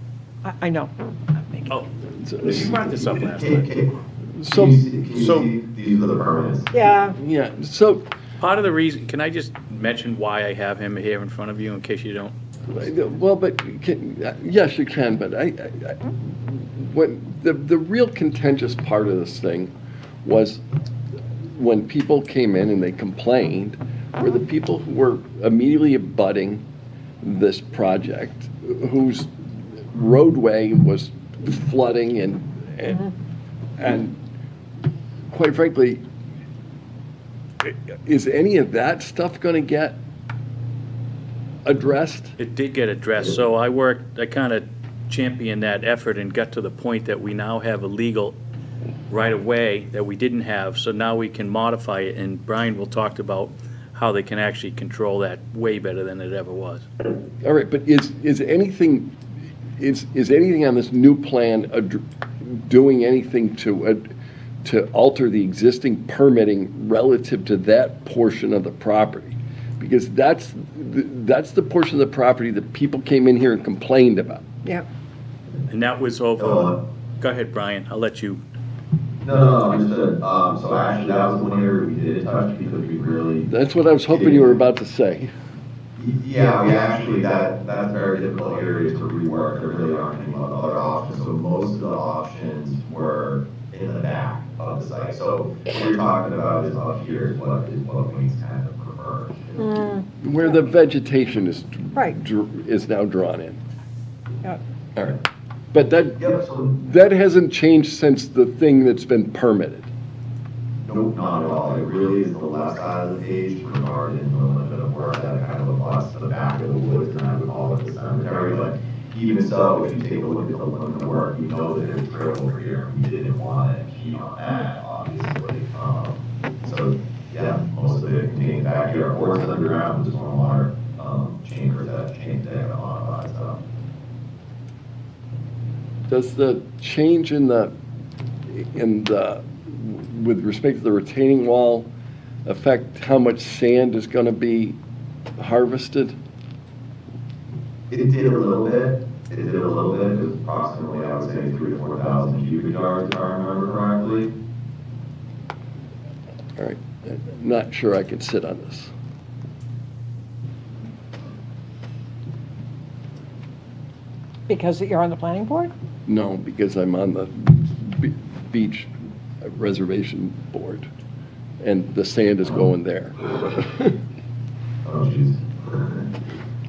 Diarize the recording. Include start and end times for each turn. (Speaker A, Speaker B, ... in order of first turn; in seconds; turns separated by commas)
Speaker A: 0.4-1.8, Speaker B: 2.1-2.8, Speaker C: 2.4-3.7, Speaker D: 3.2-3.9, Speaker B: 4.3-4.8, Speaker D: 4.5-6.7, Speaker C: 5.2-5.5, Speaker A: 6.7-7.2, Speaker B: 7.2-8.1, Speaker C: 8.4-12.3, Speaker B: 12.7-19.7, Speaker B: 20.2-20.6, Speaker B: 21.5-26.6, Speaker B: 27.2-33.1, Speaker B: 33.8-34.2, Speaker B: 35.3-36.0, Speaker B: 37.6-40.0, Speaker B: 41.6-42.4, Speaker C: 42.4-48.4, Speaker C: 49.1-56.9, Speaker B: 57.4-59.1, Speaker B: 59.8-64.1, Speaker B: 64.6-74.4, Speaker C: 75.7-78.4, Speaker D: 76.4-76.7, Speaker D: 79.2-83.5, Speaker B: 83.5-85.3, Speaker D: 84.1-84.6, Speaker D: 86.0-99.9, Speaker A: 99.6-100.5, Speaker B: 100.2-103.6, Speaker B: 105.0-105.2, Speaker B: 105.7-109.9, Speaker D: 106.2-106.7, Speaker D: 110.8-133.6, Speaker B: 136.1-137.7, Speaker B: 138.5-141.9, Speaker B: 142.4-144.8, Speaker B: 145.4-146.2, Speaker D: 147.9-154.3, Speaker B: 156.6-158.9, Speaker A: 164.5-165.7, Speaker B: 166.1-170.9, Speaker B: 171.6-174.0, Speaker D: 174.8-176.1